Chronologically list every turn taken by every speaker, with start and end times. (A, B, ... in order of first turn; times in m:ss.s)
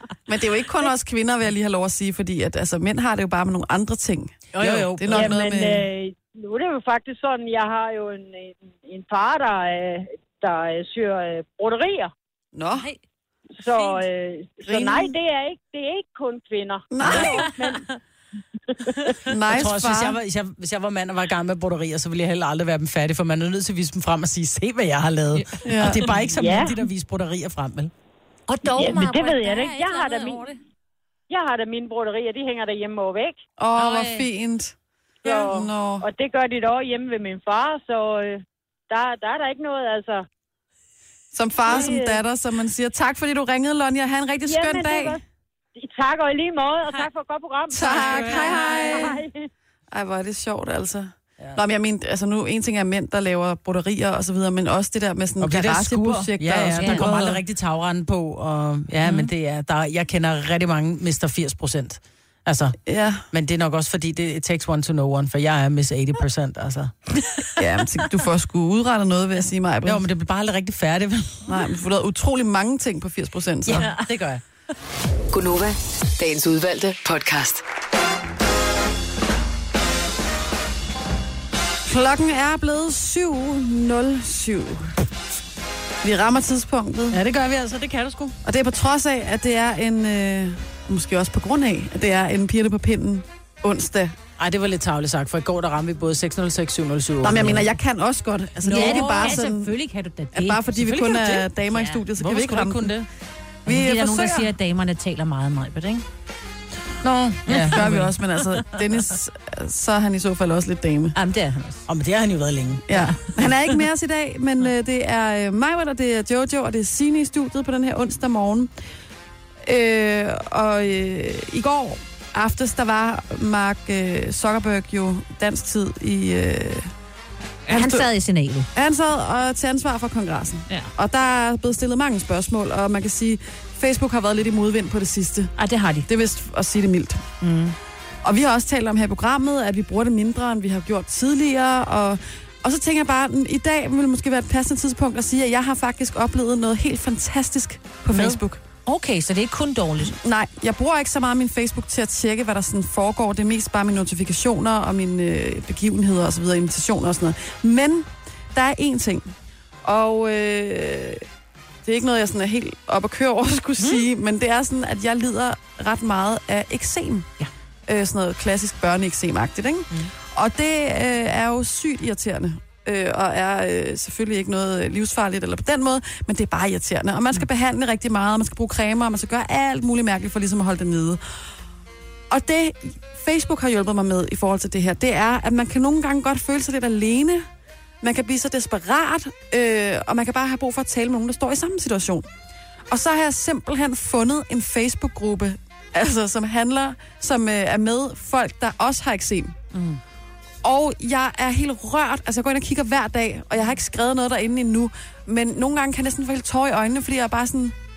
0:00.3-0:05.9 A
0:04.5-0:05.4 B
0:05.1-0:12.1 C
0:12.5-0:12.9 A
0:13.6-0:17.8 C
0:14.6-0:15.1 A
0:16.9-0:17.5 A
0:17.0-0:17.9 D
0:18.7-0:19.1 C
0:19.3-0:20.2 A
0:19.5-0:27.9 B
0:25.3-0:26.3 D
0:25.6-0:26.0 A
0:26.4-0:26.8 C
0:28.5-0:30.6 D
0:28.7-0:30.5 C
0:31.3-0:33.4 C
0:33.6-0:34.7 A
0:33.8-0:34.2 D
0:35.2-0:40.2 C
0:35.4-0:36.0 A
0:41.3-0:45.2 A
0:41.6-0:42.2 C
0:44.4-0:45.2 C
0:45.8-0:49.5 C
0:47.7-0:49.2 A
0:47.9-0:48.9 B
0:47.9-0:49.0 D
0:49.9-0:57.1 A
0:55.4-1:02.8 B
0:56.8-0:57.4 D
0:59.0-0:59.3 D
1:02.8-1:03.2 A
1:03.3-1:07.0 B
1:07.6-1:10.0 A
1:09.8-1:11.6 B
1:11.5-1:13.9 A
1:13.6-1:14.4 B
1:13.7-1:14.1 D
1:15.3-1:17.6 E
1:21.8-1:25.0 A
1:26.0-1:27.2 A
1:27.1-1:28.4 B
1:28.4-1:34.1 A
1:34.4-1:37.7 B
1:37.2-1:39.7 A
1:38.6-1:40.6 D
1:38.7-1:39.4 B
1:40.3-1:42.9 A
1:40.7-1:41.5 B
1:41.7-1:42.0 D
1:42.2-1:43.1 B
1:43.6-1:44.5 A
1:43.6-1:46.0 D
1:47.0-1:47.9 B
1:47.5-1:48.4 D
1:47.7-1:51.1 A
1:51.1-1:51.8 D
1:51.9-1:52.9 B
1:52.9-1:58.7 A
1:52.9-1:53.7 D
1:59.6-2:06.9 A
2:07.7-2:08.7 D
2:07.7-2:08.1 A
2:08.7-2:15.5 A
2:15.6-2:16.1 D
2:16.1-2:17.2 A
2:17.4-2:17.7 D
2:18.2-2:28.6 A
2:28.1-2:30.1 D
2:30.1-2:39.3 A
2:39.8-2:41.2 A
2:41.8-2:47.3 A
2:43.8-2:44.0 D
2:47.9-3:01.2 A
3:02.3-3:07.4 A
3:08.0-3:12.2 A
3:12.9-3:19.5 A
3:19.7-3:20.0 D
3:20.6-3:27.7 A